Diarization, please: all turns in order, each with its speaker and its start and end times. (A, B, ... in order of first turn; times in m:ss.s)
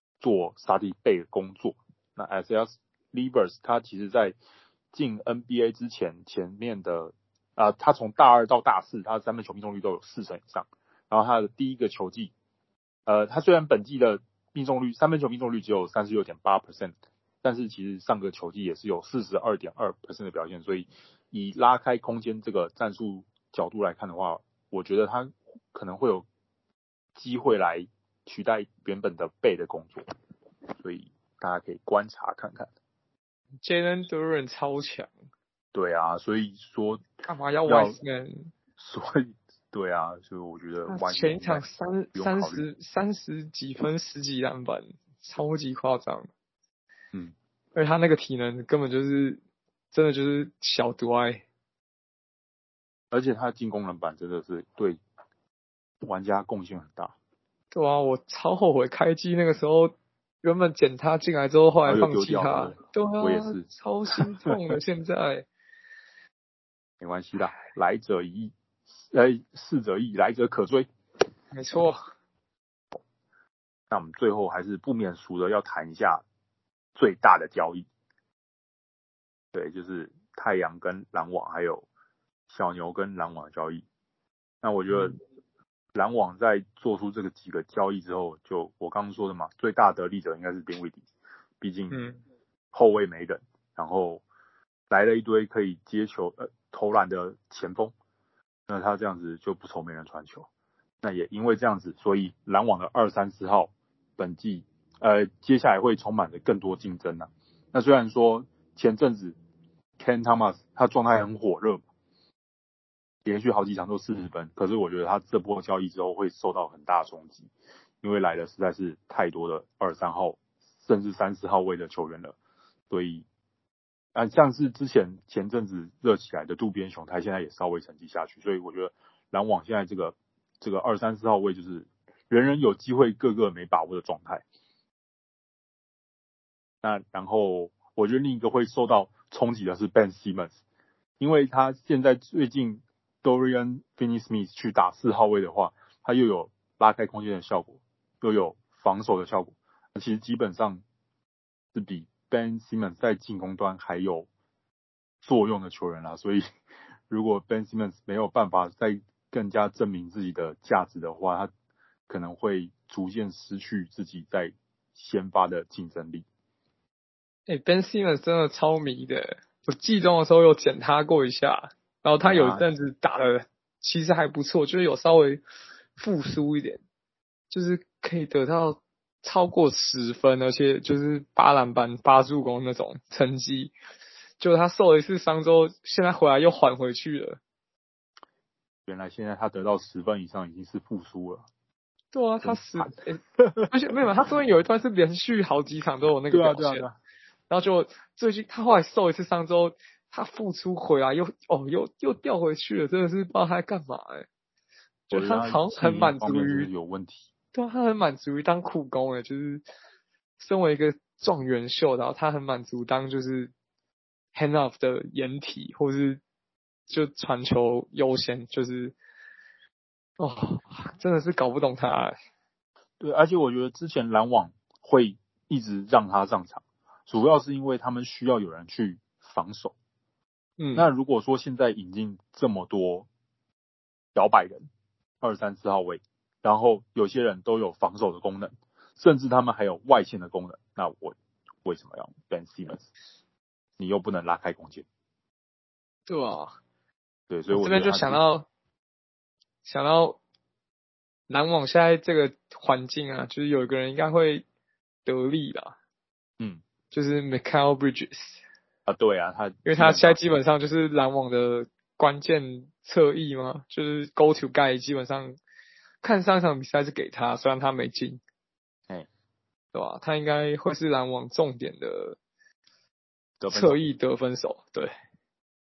0:00.2-0:04.4 A
0:04.9-0:12.3 A
0:13.1-0:26.3 A
0:27.2-0:30.1 A
0:30.8-0:32.7 A
0:33.6-0:35.1 B
0:35.7-0:37.1 A
0:37.2-0:38.5 B
0:37.7-0:38.0 A
0:38.8-0:42.6 A
0:40.9-0:46.3 B
0:47.8-0:49.4 B
0:49.9-0:51.4 B
0:53.1-0:55.0 A
0:56.0-0:57.2 A
0:57.7-1:05.5 B
1:01.9-1:03.7 A
1:04.2-1:04.7 A
1:07.0-1:08.5 A
1:09.1-1:10.9 A
1:11.5-1:12.0 B
1:13.9-1:16.2 A
1:17.0-1:17.9 A
1:19.5-1:21.9 A
1:22.5-1:23.8 A
1:24.6-1:25.2 A
1:24.9-1:25.2 B
1:26.0-1:31.0 A
1:31.6-1:32.0 A
1:31.9-1:32.2 B
1:32.7-1:34.2 A
1:34.9-1:37.9 A
1:38.7-1:40.5 A
1:41.0-1:49.4 A
1:50.0-1:51.8 A
1:53.2-1:57.5 A
1:58.0-2:02.4 A
2:02.9-2:03.3 A
2:04.2-2:14.4 A
2:16.8-2:20.6 A
2:21.2-2:30.8 A
2:31.7-2:34.3 A
2:35.2-2:36.5 A
2:37.1-2:41.5 A
2:42.1-2:46.3 A
2:47.5-2:55.4 B
2:52.2-2:52.6 A
2:56.0-2:56.8 B
2:57.5-3:03.7 B
3:04.4-3:07.4 B
3:08.9-3:11.5 A
3:12.1-3:16.8 B
3:12.4-3:13.7 A
3:16.3-3:17.0 A
3:17.5-3:24.3 B
3:25.1-3:26.7 B
3:25.1-3:27.3 A
3:27.5-3:29.6 B
3:30.4-3:33.5 B
3:34.4-3:36.2 B
3:36.9-3:39.0 B
3:40.2-3:42.2 B
3:43.0-3:49.8 A
3:50.6-3:50.9 B
3:50.8-3:53.1 A
3:54.2-3:54.7 A
3:55.2-4:02.9 A
4:03.8-4:04.9 A
4:06.1-4:06.6 B
4:07.3-4:08.2 A
4:07.5-4:08.5 B
4:09.6-4:10.2 B
4:11.3-4:14.4 B
4:15.1-4:15.8 B
4:16.9-4:18.4 B
4:18.9-4:20.2 A
4:19.6-4:25.4 B
4:26.0-4:28.2 B
4:29.7-4:32.2 B
4:33.4-4:33.8 A
4:33.5-4:34.9 B